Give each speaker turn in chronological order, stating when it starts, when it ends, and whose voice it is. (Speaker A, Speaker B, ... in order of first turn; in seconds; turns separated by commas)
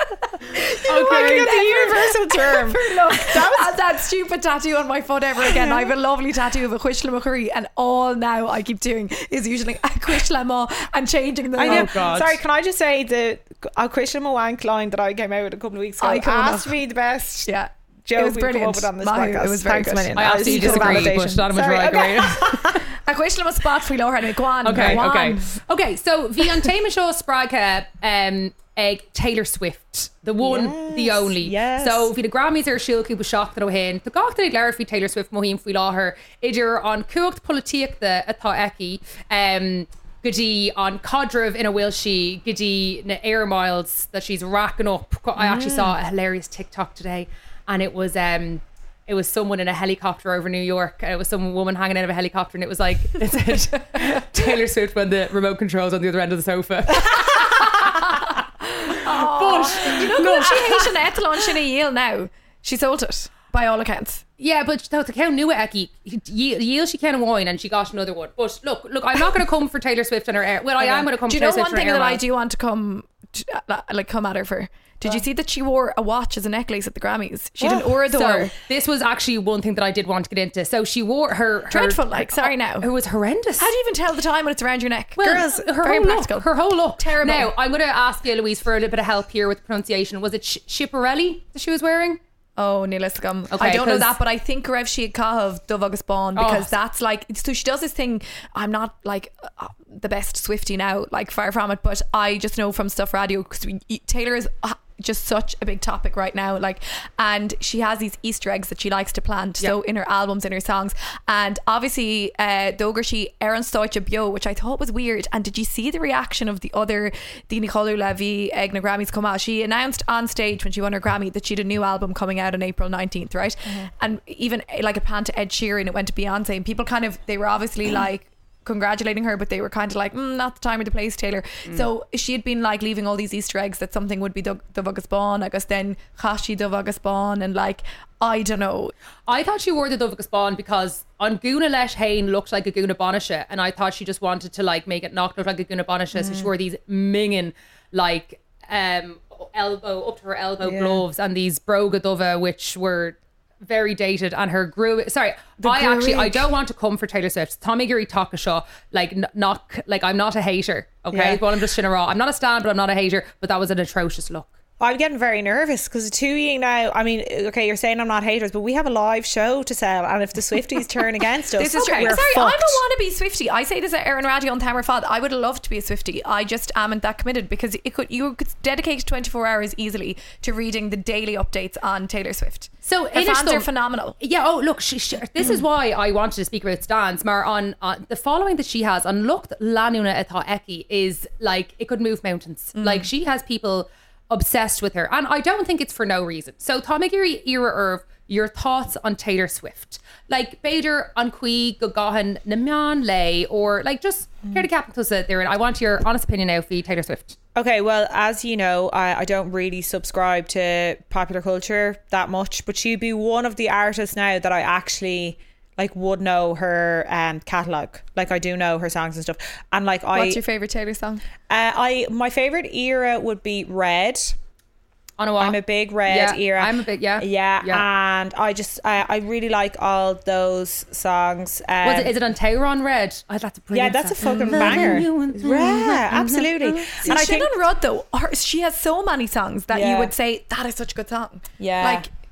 Speaker A: 0.4-12.0, Speaker B: 0.9-3.8, Speaker C: 0.9-1.4, Speaker B: 5.4-5.9, Speaker B: 11.6-17.5, Speaker C: 11.6-12.4, Speaker A: 16.0-16.8, Speaker A: 17.4-21.1, Speaker B: 18.1-22.8, Speaker C: 20.1-22.8, Speaker A: 23.0-25.6, Speaker C: 24.6-60.9, Speaker B: 30.4-32.1, Speaker B: 45.4-46.0, Speaker A: 58.9-64.2, Speaker C: 64.4-72.2, Speaker A: 71.2-78.5, Speaker B: 77.6-77.9, Speaker C: 78.0-83.7, Speaker A: 81.7-82.9, Speaker A: 83.6-87.5, Speaker C: 85.2-92.2, Speaker B: 85.2-85.6, Speaker A: 92.6-138.9, Speaker C: 93.5-94.2, Speaker C: 96.3-96.7, Speaker C: 139.3-164.5, Speaker B: 146.1-146.5, Speaker B: 150.6-151.0, Speaker B: 155.6-156.4, Speaker B: 161.1-161.4, Speaker B: 164.8-172.8, Speaker A: 171.6-184.2, Speaker C: 171.8-172.2, Speaker C: 182.8-183.7, Speaker C: 184.2-207.3, Speaker A: 192.7-193.1, Speaker B: 207.5-220.4, Speaker A: 220.1-221.2, Speaker B: 221.5-224.3, Speaker C: 225.2-227.8, Speaker B: 225.4-232.1, Speaker C: 231.8-237.1, Speaker B: 233.7-237.5, Speaker A: 234.2-235.0, Speaker A: 237.0-242.1, Speaker B: 239.7-240.1, Speaker B: 241.6-242.1